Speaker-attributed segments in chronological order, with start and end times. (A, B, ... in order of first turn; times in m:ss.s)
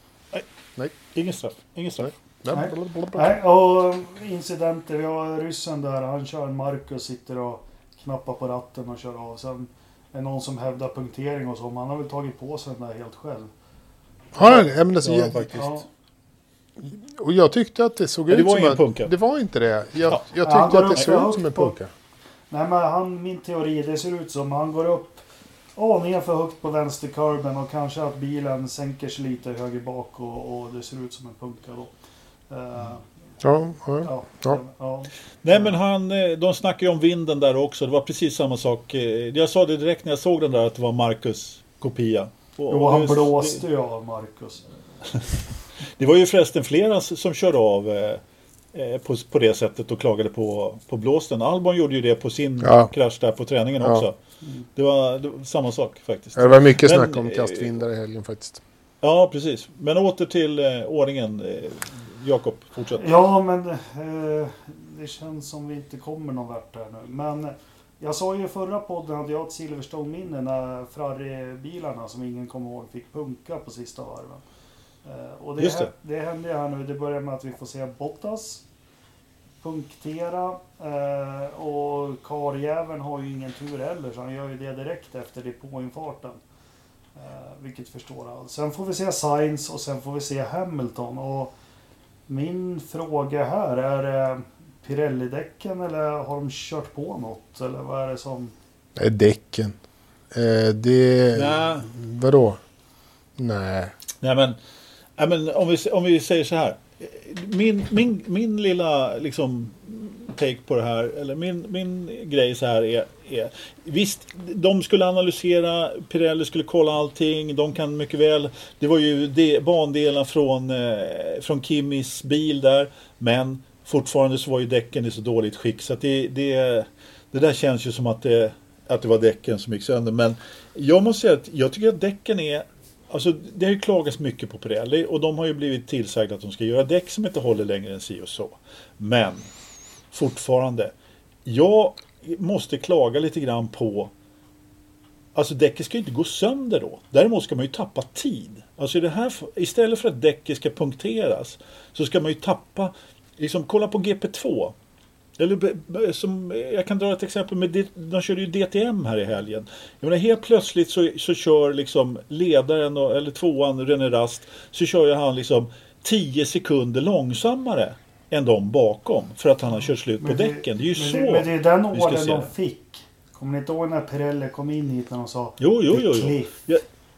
0:01.1-0:02.1 A
0:02.0-0:03.3 B
0:02.5-0:13.5 C
0:14.4-0:15.6 B
0:14.4-0:15.7 A
0:15.6-0:15.8 C
0:16.8-0:21.9 B
0:18.3-0:19.1 A
0:20.4-0:21.8 C
0:21.0-0:21.2 A
0:22.5-0:25.2 C
0:25.8-0:31.9 C
0:32.5-0:33.0 C
0:33.4-0:34.6 B
0:34.0-0:35.8 C
0:35.4-0:43.6 A
0:42.7-0:44.6 C
0:46.0-0:48.2 A
0:48.7-0:54.2 A
0:52.6-0:52.9 B
0:53.8-0:54.1 B
0:54.8-0:57.8 A
0:56.4-0:58.6 B
0:59.0-1:03.1 A
1:03.0-1:14.4 C
1:15.0-1:18.6 C
1:15.6-1:15.9 A
1:19.6-1:26.4 C
1:27.2-1:31.5 C
1:32.3-1:38.5 C
1:39.0-1:39.8 B
1:40.3-1:42.6 B
1:41.3-1:41.9 A
1:43.4-1:43.9 B
1:44.2-1:44.6 A
1:45.2-2:19.5 A
2:20.1-2:20.9 A
2:21.4-2:24.1 A
2:25.4-2:34.8 A
2:35.4-2:52.5 A
2:50.2-2:56.7 C
2:55.6-2:56.8 A